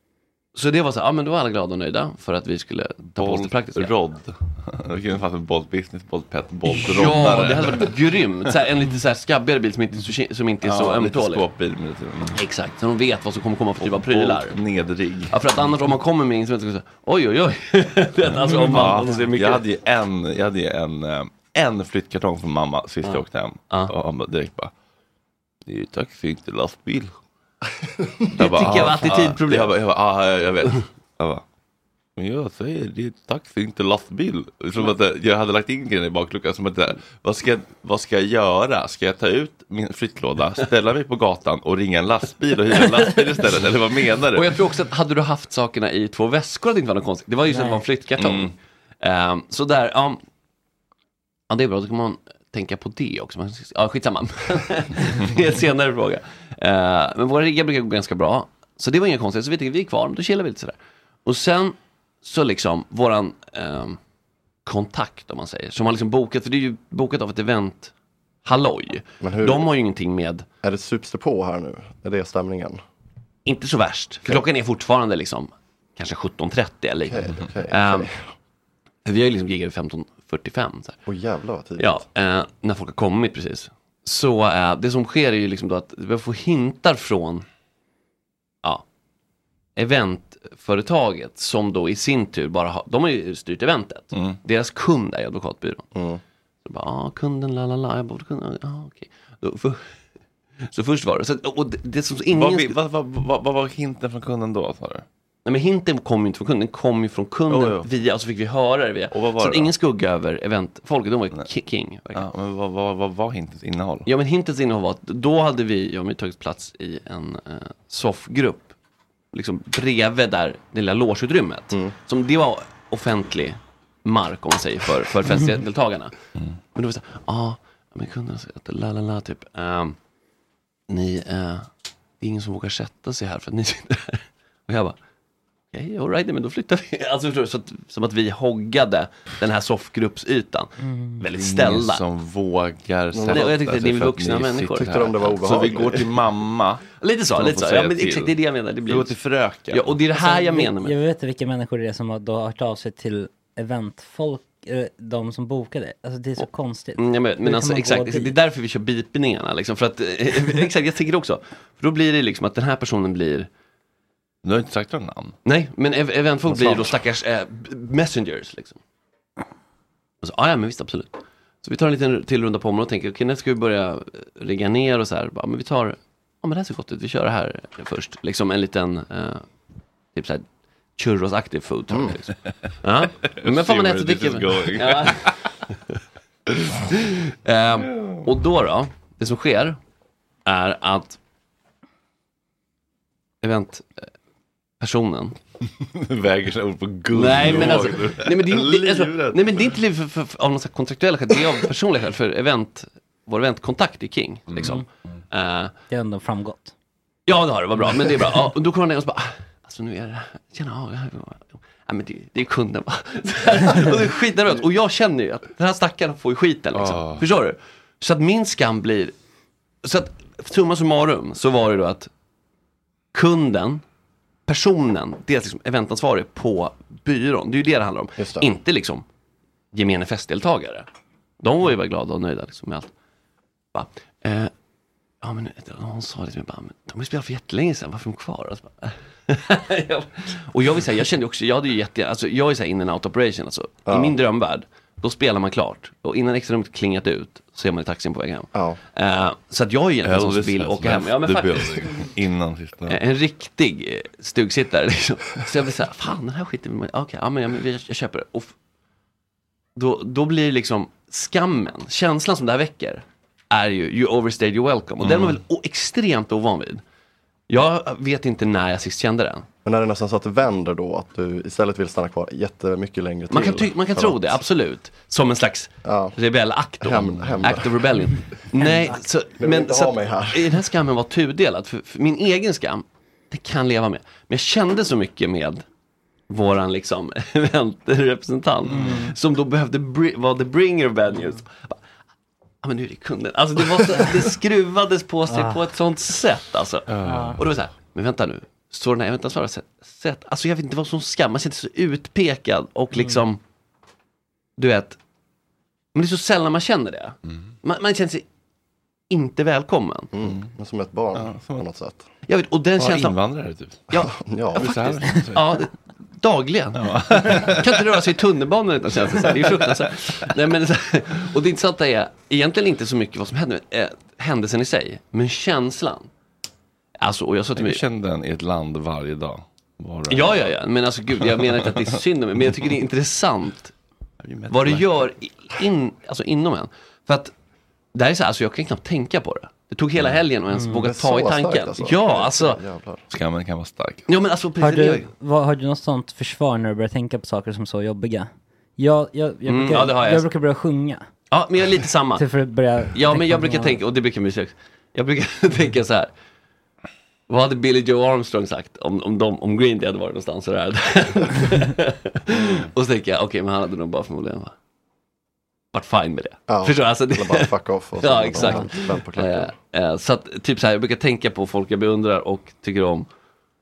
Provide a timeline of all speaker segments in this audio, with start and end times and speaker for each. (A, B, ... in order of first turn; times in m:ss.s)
0:00.5-0:03.9 A
0:03.2-0:07.9 B
0:06.7-0:11.4 A
0:10.6-0:12.4 B
0:12.4-0:14.6 A
0:13.8-0:15.4 B
0:15.3-0:19.6 A
0:18.3-0:24.7 B
0:18.5-0:19.0 C
0:23.0-0:23.9 A
0:25.6-0:27.1 B
0:28.3-0:29.8 A
0:28.4-0:31.4 B
0:32.2-0:44.5 B
0:44.3-0:50.2 A
0:47.5-0:47.8 C
0:48.2-0:48.5 B
0:51.5-1:04.0 A
1:04.6-1:07.9 A
1:08.4-1:10.4 A
1:09.2-1:09.6 D
1:10.6-1:12.8 D
1:13.4-1:18.1 A
1:17.0-1:18.2 D
1:19.0-1:21.0 A
1:21.1-1:22.0 D
1:21.8-1:27.4 A
1:29.8-1:35.9 A
1:34.1-1:34.4 B
1:35.9-1:36.2 D
1:36.6-1:39.8 A
1:40.7-1:42.8 A
1:42.3-1:45.0 B
1:45.4-1:52.2 A
1:47.5-1:47.9 B
1:49.1-1:49.7 B
1:52.1-1:54.1 B
1:54.0-1:58.7 A
1:59.3-2:06.1 A
2:06.8-2:10.0 A
2:10.9-2:11.7 A
2:12.2-2:15.0 A
2:15.7-2:22.0 A
2:20.8-2:21.2 C
2:21.3-2:28.3 B
2:23.1-2:23.5 D
2:23.3-2:25.8 A
2:24.8-2:26.0 D
2:27.0-2:29.1 A
2:28.9-2:30.0 B
2:29.7-2:31.0 A
2:30.1-2:38.3 C
2:37.0-2:43.5 A
2:44.4-2:45.4 B
2:45.4-2:48.8 A
2:46.5-2:46.9 D
2:50.2-2:59.4 A
3:00.1-3:00.4 A
3:01.0-3:05.3 A
3:03.2-3:05.3 B
3:06.9-3:09.8 A
3:10.4-3:11.2 A
3:13.4-3:13.9 A
3:14.8-3:15.4 A
3:15.8-3:19.7 B
3:17.1-3:25.7 A
3:24.5-3:24.8 B
3:25.9-3:26.7 C
3:27.3-3:39.1 A
3:36.7-3:37.2 B
3:39.8-3:42.1 A
3:43.1-3:43.8 A
3:44.5-3:49.0 A
3:48.2-3:48.4 D
3:49.7-3:50.8 A
3:51.4-3:52.9 A
3:53.7-3:54.5 A
3:55.2-4:12.1 A
4:03.9-4:04.1 D
4:10.0-4:12.9 B
4:12.9-4:18.5 A
4:19.8-4:26.8 A
4:25.0-4:25.4 B
4:27.5-4:29.5 A
4:29.6-4:34.3 D
4:33.3-4:45.6 A
4:35.8-4:36.1 D
4:36.8-4:37.7 D
4:39.4-4:40.6 D
4:46.3-4:51.8 A
4:48.7-4:49.1 B
4:48.8-4:49.1 C
4:52.6-5:03.4 A
4:55.3-4:55.6 C
4:56.9-4:57.4 B
4:57.0-4:57.4 C
5:04.6-5:05.0 A
5:05.9-5:08.2 A
5:09.1-5:10.1 A
5:10.1-5:12.0 D
5:11.1-5:11.6 B
5:12.3-5:13.2 A
5:12.8-5:13.9 B
5:13.9-5:26.1 A
5:14.0-5:15.0 D
5:14.5-5:15.6 B
5:16.8-5:17.8 B
5:27.0-5:27.8 A
5:27.6-5:30.5 B
5:30.1-5:33.7 A
5:31.4-5:31.8 B
5:34.2-5:35.0 B
5:34.5-5:37.3 A
5:37.9-5:42.6 A
5:40.5-5:40.8 C
5:40.8-5:43.0 D
5:43.1-5:44.0 B
5:44.1-5:45.1 A
5:44.6-5:51.0 C
5:49.4-5:50.3 A
5:51.3-5:52.2 A
5:52.2-5:53.8 C
5:52.9-5:56.1 A
5:57.3-6:04.5 A
6:05.7-6:13.1 A
6:06.5-6:09.5 D